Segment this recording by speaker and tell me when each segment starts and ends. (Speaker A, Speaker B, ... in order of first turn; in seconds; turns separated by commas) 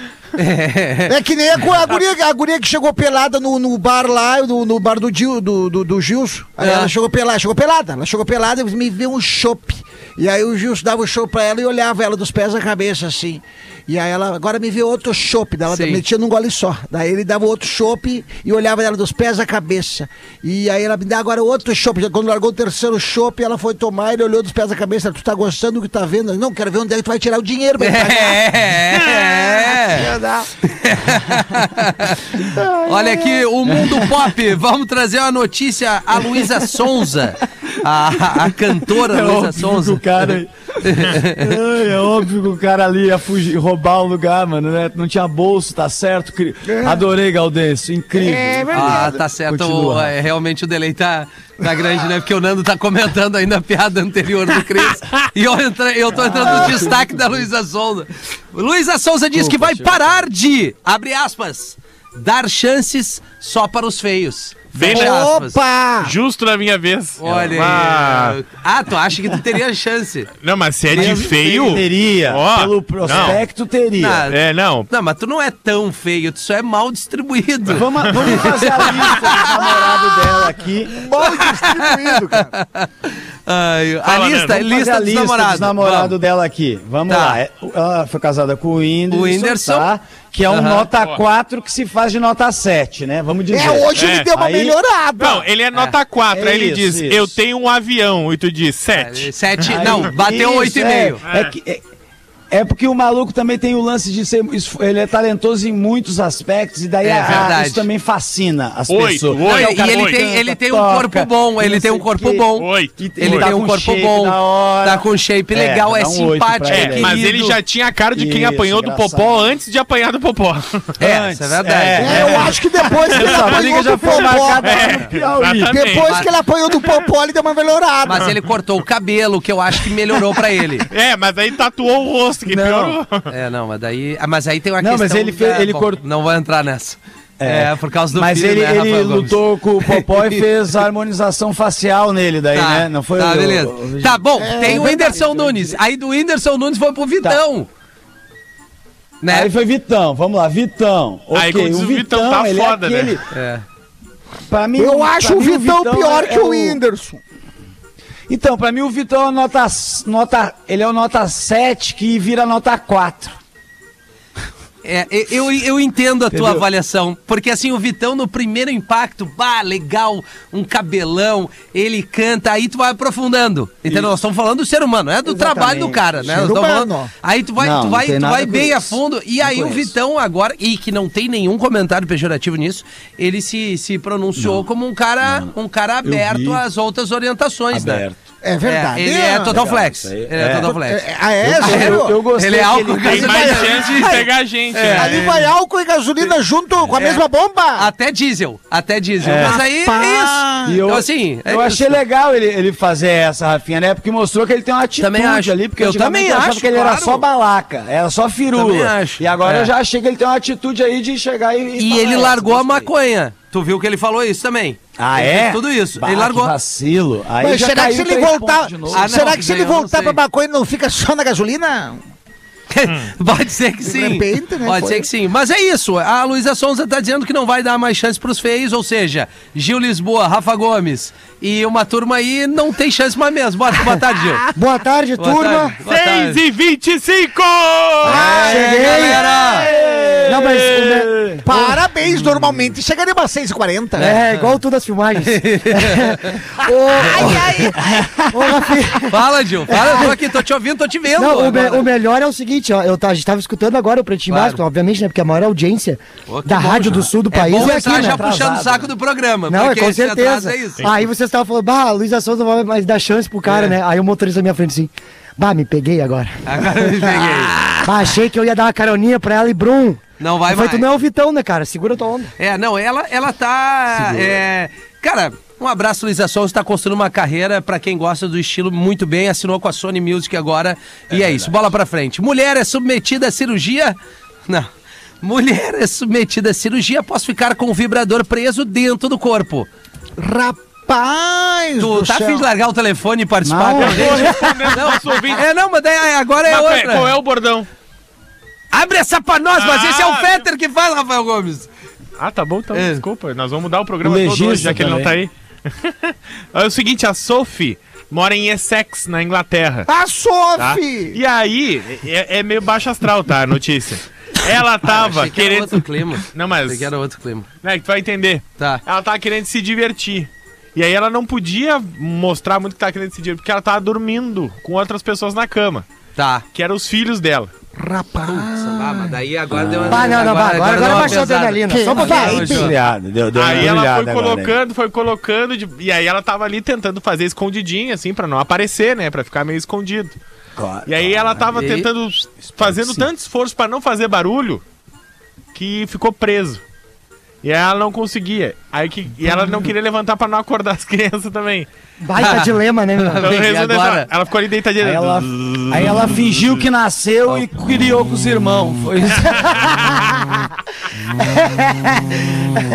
Speaker A: 0.3-1.1, Speaker B: 1.1-28.6, Speaker A: 6.6-6.9, Speaker A: 15.7-16.0, Speaker A: 27.8-30.1, Speaker B: 29.3-30.5, Speaker A: 30.6-40.3, Speaker B: 32.5-33.0, Speaker C: 32.5-34.2, Speaker C: 36.4-36.6, Speaker C: 38.0-50.1, Speaker A: 40.8-41.6, Speaker B: 46.7-47.0, Speaker B: 48.1-49.2, Speaker A: 48.7-65.6, Speaker C: 56.3-57.2, Speaker B: 56.3-56.9, Speaker C: 59.3-60.2, Speaker D: 64.8-65.2, Speaker B: 64.8-66.1, Speaker D: 66.0-68.4, Speaker A: 67.2-70.3, Speaker D: 70.4-73.4, Speaker C: 70.9-74.2, Speaker A: 71.0-71.4, Speaker A: 74.0-74.3, Speaker D: 74.3-74.9, Speaker A: 74.9-79.7, Speaker C: 77.7-81.0, Speaker B: 80.9-82.5, Speaker A: 81.2-86.2, Speaker D: 84.0-84.6, Speaker C: 84.5-94.8, Speaker A: 87.1-87.4, Speaker A: 89.1-89.9, Speaker A: 90.5-90.9, Speaker B: 93.5-95.5, Speaker D: 93.9-94.3, Speaker D: 95.2-100.0, Speaker C: 96.3-97.3, Speaker A: 98.9-101.2, Speaker C: 99.7-101.8, Speaker D: 101.3-101.5, Speaker C: 102.5-117.3, Speaker A: 107.0-107.8, Speaker D: 108.9-110.2, Speaker A: 109.4-117.6, Speaker D: 112.6-113.5, Speaker D: 116.7-120.9, Speaker C: 118.1-119.4, Speaker A: 121.0-122.5, Speaker C: 121.0-125.8, Speaker B: 122.0-125.0, Speaker D: 123.1-126.2, Speaker B: 125.7-128.3, Speaker A: 126.0-126.3, Speaker A: 128.1-130.9, Speaker D: 130.9-133.3, Speaker A: 132.5-140.4, Speaker C: 134.8-136.0, Speaker C: 137.4-145.8, Speaker A: 142.5-147.7, Speaker B: 144.4-145.5, Speaker A: 149.2-149.5, Speaker C: 149.3-153.2, Speaker D: 151.3-153.2, Speaker A: 153.3-153.6, Speaker C: 154.5-156.8, Speaker B: 154.8-157.2, Speaker C: 158.3-163.3, Speaker A: 164.8-188.0, Speaker C: 166.3-166.7, Speaker C: 173.9-174.1, Speaker C: 175.2-176.4, Speaker B: 176.2-177.1, Speaker C: 177.6-179.9, Speaker C: 184.3-184.7, Speaker C: 185.2-186.6, Speaker C: 187.7-188.2, Speaker B: 188.4-189.5, Speaker A: 188.6-195.4, Speaker C: 189.5-190.7, Speaker B: 190.6-192.2, Speaker C: 191.4-193.7, Speaker D: 193.0-195.2, Speaker B: 193.2-194.2, Speaker B: 194.9-197.9, Speaker A: 196.9-197.2, Speaker A: 197.8-202.0, Speaker C: 199.2-199.6, Speaker B: 199.3-200.8, Speaker C: 200.6-212.9, Speaker A: 205.0-207.2, Speaker A: 208.5-209.7, Speaker A: 211.8-216.5, Speaker C: 215.0-219.3, Speaker B: 217.4-222.0, Speaker A: 218.9-220.2, Speaker A: 222.7-234.4, Speaker B: 223.8-225.1, Speaker E: 234.5-235.8, Speaker A: 235.2-236.4, Speaker D: 235.8-238.3, Speaker B: 238.0-240.1, Speaker C: 238.1-241.4, Speaker A: 238.2-239.7, Speaker E: 238.2-239.2, Speaker E: 240.3-241.3, Speaker B: 241.4-244.1, Speaker A: 244.0-244.6, Speaker E: 244.0-247.7, Speaker A: 245.2-246.4, Speaker A: 247.0-247.7, Speaker B: 247.1-247.4, Speaker C: 247.8-248.4, Speaker E: 248.3-250.2, Speaker A: 249.1-251.9, Speaker E: 251.1-258.2, Speaker A: 254.3-254.6, Speaker A: 256.3-260.8, Speaker C: 257.5-258.9, Speaker E: 259.5-272.3, Speaker D: 260.8-261.0, Speaker A: 263.4-263.8, Speaker A: 266.4-267.6, Speaker A: 270.2-270.9, Speaker A: 272.4-284.7, Speaker A: 285.2-289.7, Speaker B: 290.2-292.4, Speaker A: 291.8-297.1, Speaker C: 293.4-294.5, Speaker D: 293.8-295.4, Speaker D: 296.4-297.7, Speaker A: 298.7-301.7, Speaker D: 299.6-300.4, Speaker D: 302.2-309.9, Speaker A: 302.7-303.0, Speaker C: 304.0-305.2, Speaker B: 309.9-311.2, Speaker D: 310.6-316.9, Speaker A: 314.9-317.5, Speaker D: 317.6-325.9, Speaker A: 326.1-326.4, Speaker D: 326.5-327.5, Speaker B: 327.8-329.1, Speaker A: 328.2-332.7, Speaker C: 329.5-331.0, Speaker E: 329.9-332.6, Speaker B: 331.7-332.7, Speaker C: 332.3-334.6, Speaker D: 333.3-340.2, Speaker C: 340.6-341.6, Speaker D: 340.9-344.6, Speaker A: 341.5-341.9, Speaker C: 342.6-343.1, Speaker D: 345.5-346.6, Speaker D: 347.4-351.7, Speaker E: 352.0-353.3, Speaker A: 352.2-354.1, Speaker D: 353.2-356.4, Speaker C: 354.8-359.7, Speaker D: 359.3-360.0, Speaker E: 361.2-362.6